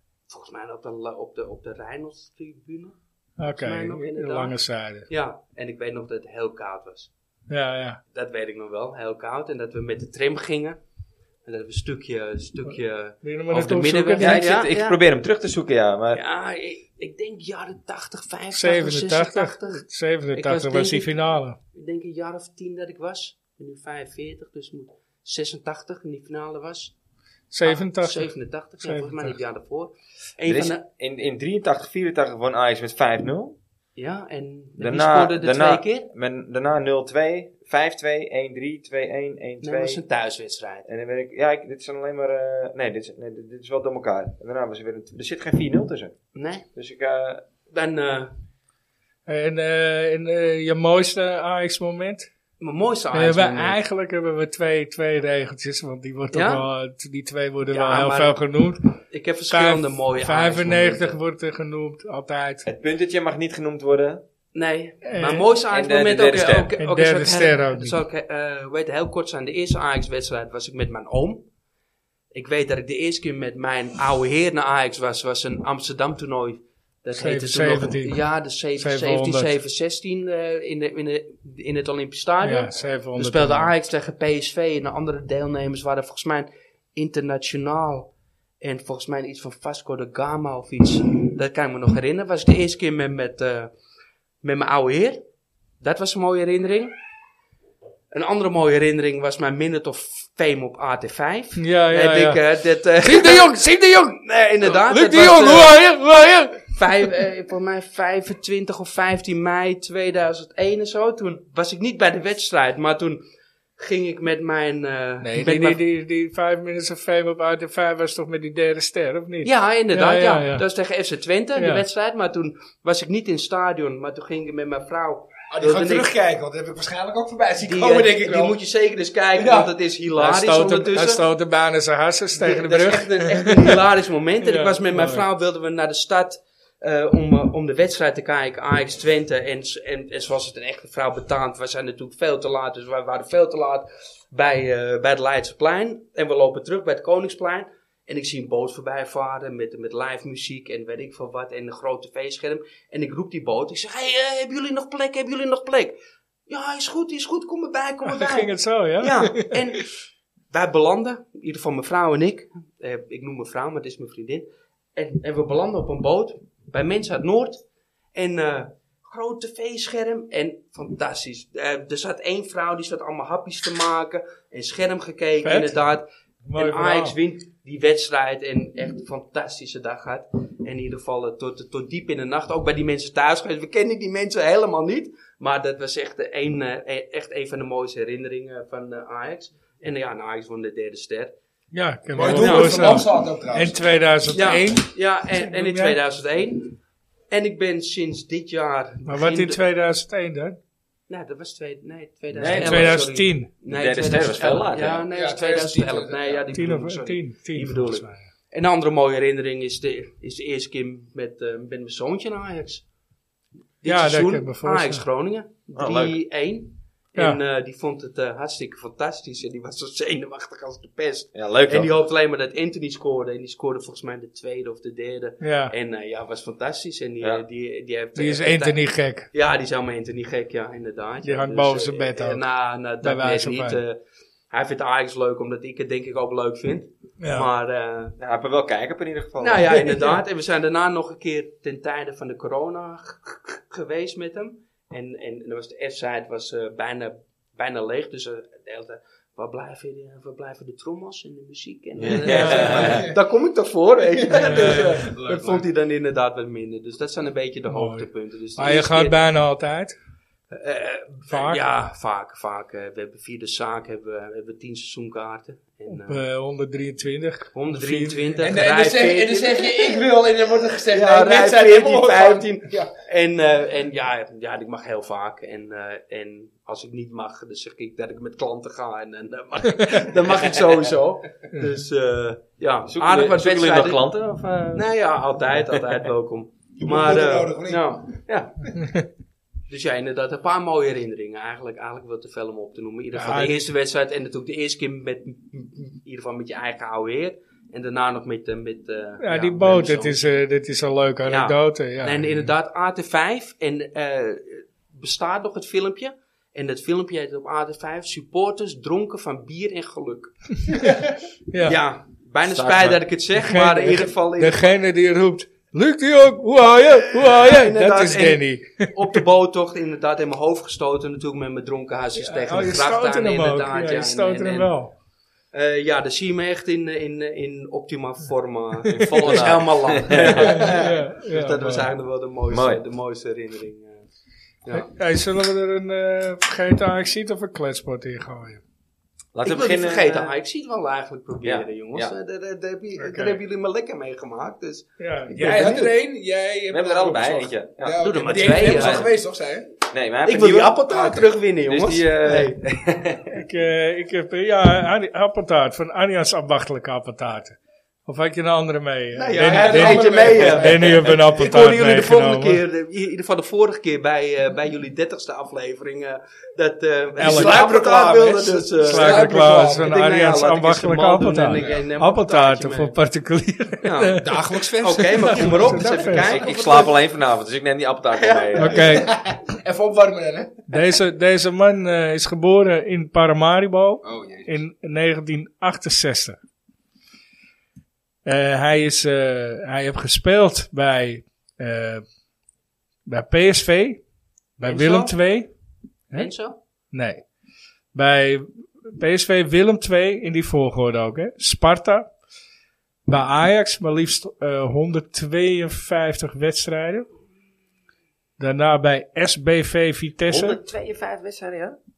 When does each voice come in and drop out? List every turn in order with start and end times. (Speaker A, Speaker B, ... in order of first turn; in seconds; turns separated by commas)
Speaker A: 0.3-4.5, Speaker B: 3.4-5.1, Speaker A: 5.1-7.1, Speaker B: 7.5-8.0, Speaker A: 8.1-10.8, Speaker A: 11.4-15.0, Speaker B: 13.2-14.4, Speaker C: 14.2-16.2, Speaker A: 16.1-21.2, Speaker B: 18.5-21.6, Speaker A: 21.7-26.9, Speaker B: 27.5-28.3, Speaker A: 27.6-30.8, Speaker B: 28.8-29.3, Speaker C: 30.5-33.6, Speaker A: 34.0-36.1, Speaker C: 34.8-40.0, Speaker A: 39.6-40.9, Speaker C: 40.9-46.1, Speaker A: 46.3-46.6, Speaker C: 46.7-47.4, Speaker A: 47.7-48.3, Speaker B: 49.2-52.3, Speaker A: 52.6-53.8, Speaker B: 53.1-58.9, Speaker A: 56.3-56.6, Speaker A: 57.7-58.4, Speaker A: 59.1-61.2, Speaker B: 59.5-62.6, Speaker C: 62.6-64.2, Speaker A: 64.5-71.4, Speaker B: 65.1-65.4, Speaker C: 65.7-66.7, Speaker B: 66.8-68.0, Speaker A: 72.3-93.7, Speaker B: 77.2-78.2, Speaker B: 78.8-79.5, Speaker B: 82.4-83.7, Speaker A: 94.4-95.2, Speaker A: 95.8-96.9, Speaker A: 98.1-103.6, Speaker B: 101.6-102.4, Speaker B: 103.0-106.7, Speaker A: 104.2-105.8, Speaker A: 106.7-113.2, Speaker A: 113.8-115.8, Speaker B: 115.2-120.6, Speaker A: 119.4-126.1, Speaker B: 121.6-121.8, Speaker D: 125.5-128.6, Speaker A: 127.6-131.2, Speaker D: 129.3-129.7, Speaker B: 130.2-133.8, Speaker A: 132.3-155.9, Speaker B: 134.4-135.2, Speaker A: 156.5-159.9, Speaker B: 158.0-159.6, Speaker A: 160.5-167.6, Speaker A: 168.1-191.3, Speaker B: 175.4-175.8, Speaker B: 176.4-177.2, Speaker B: 191.7-196.0, Speaker D: 192.1-193.8, Speaker A: 192.2-193.0, Speaker A: 194.3-196.8, Speaker A: 197.3-199.6, Speaker B: 199.1-200.6, Speaker A: 201.1-212.8, Speaker C: 202.3-203.0, Speaker B: 202.4-203.5, Speaker C: 203.7-205.0, Speaker D: 205.1-206.5, Speaker B: 206.5-208.2, Speaker A: 213.8-234.0, Speaker B: 213.8-215.0, Speaker C: 215.8-216.2, Speaker C: 221.3-221.9, Speaker B: 225.4-225.7, Speaker B: 228.2-229.3, Speaker B: 231.2-232.4, Speaker B: 233.0-233.8, Speaker A: 234.5-238.2, Speaker B: 237.2-237.5, Speaker C: 238.2-239.8, Speaker A: 239.4-259.2, Speaker B: 239.7-240.2, Speaker C: 252.1-253.1, Speaker B: 252.2-253.1, Speaker D: 252.4-253.2, Speaker D: 254.2-255.7, Speaker B: 254.3-255.0, Speaker B: 257.7-259.9, Speaker A: 260.5-266.2, Speaker B: 261.3-261.6, Speaker B: 265.9-268.3, Speaker A: 267.5-270.1, Speaker D: 268.4-272.9, Speaker A: 270.9-284.0, Speaker C: 282.9-284.9, Speaker A: 284.7-288.7, Speaker D: 286.8-287.9, Speaker A: 289.7-300.3, Speaker B: 293.1-293.6, Speaker B: 299.2-302.5, Speaker A: 301.2-310.9, Speaker B: 311.5-311.8, Speaker A: 311.6-314.6, Speaker C: 312.4-313.0, Speaker B: 313.4-319.2, Speaker A: 317.1-324.7, Speaker B: 322.2-324.9, Speaker A: 325.5-334.1, Speaker C: 328.9-330.7, Speaker B: 330.1-331.9, Speaker C: 332.5-332.8, Speaker B: 334.7-338.6, Speaker C: 339.3-340.3, Speaker A: 339.4-345.9, Speaker C: 341.4-342.1, Speaker B: 343.0-343.4, Speaker B: 345.0-345.8, Speaker D: 345.4-349.7, Speaker C: 346.7-349.1, Speaker A: 348.0-349.1, Speaker C: 349.9-350.8, Speaker A: 350.2-352.6, Speaker D: 350.9-351.3, Speaker C: 351.7-353.4, Speaker B: 353.3-362.6, Speaker A: 359.1-372.9, Speaker D: 359.3-361.2, Speaker B: 367.2-367.6, Speaker D: 367.2-370.0, Speaker B: 368.8-374.4, Speaker D: 371.5-371.8, Speaker A: 373.8-374.3, Speaker D: 374.2-376.4, Speaker A: 374.8-376.9, Speaker B: 375.1-376.3, Speaker C: 376.2-378.9, Speaker A: 378.1-379.0, Speaker B: 378.6-379.1, Speaker D: 378.7-380.6, Speaker B: 380.7-386.4, Speaker D: 384.0-384.6, Speaker B: 388.2-392.0, Speaker B: 393.1-394.0, Speaker B: 394.6-395.5, Speaker A: 394.6-395.2, Speaker A: 396.1-396.6, Speaker B: 396.9-397.2, Speaker B: 397.9-402.1, Speaker B: 403.1-407.1, Speaker B: 408.4-410.6, Speaker C: 410.3-411.8